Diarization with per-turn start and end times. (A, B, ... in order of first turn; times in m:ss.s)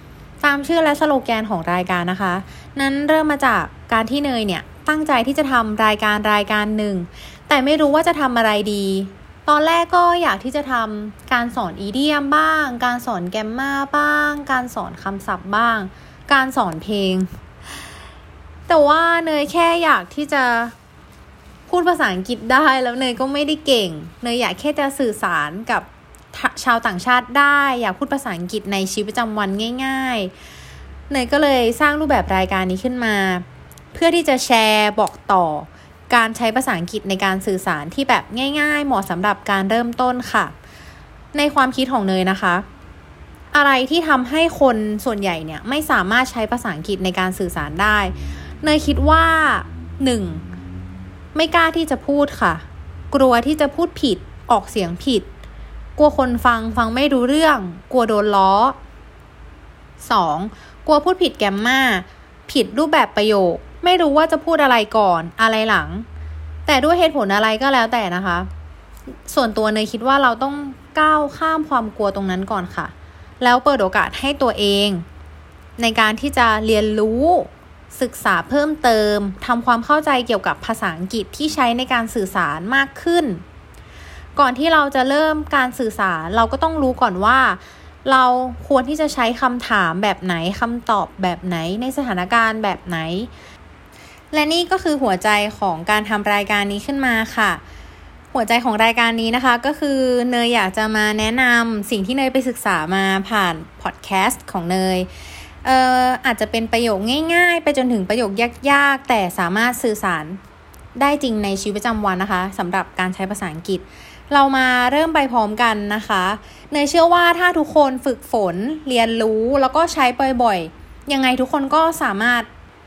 0:00.4-0:17.3 A
0:18.7-0:20.7 A
0:21.7-0:30.3 A
0:31.1-0:40.5 A
0:41.3-0:42.6 A
0:43.5-0:50.4 A
0:51.3-0:55.3 A
0:56.0-0:58.8 A
1:00.0-1:06.1 A
1:06.6-1:08.5 A
1:09.2-1:15.0 A
1:15.8-1:23.4 A
1:24.4-1:33.3 A
1:34.3-1:37.6 A
1:38.3-1:45.1 A
1:45.6-1:50.4 A
1:51.0-2:02.5 A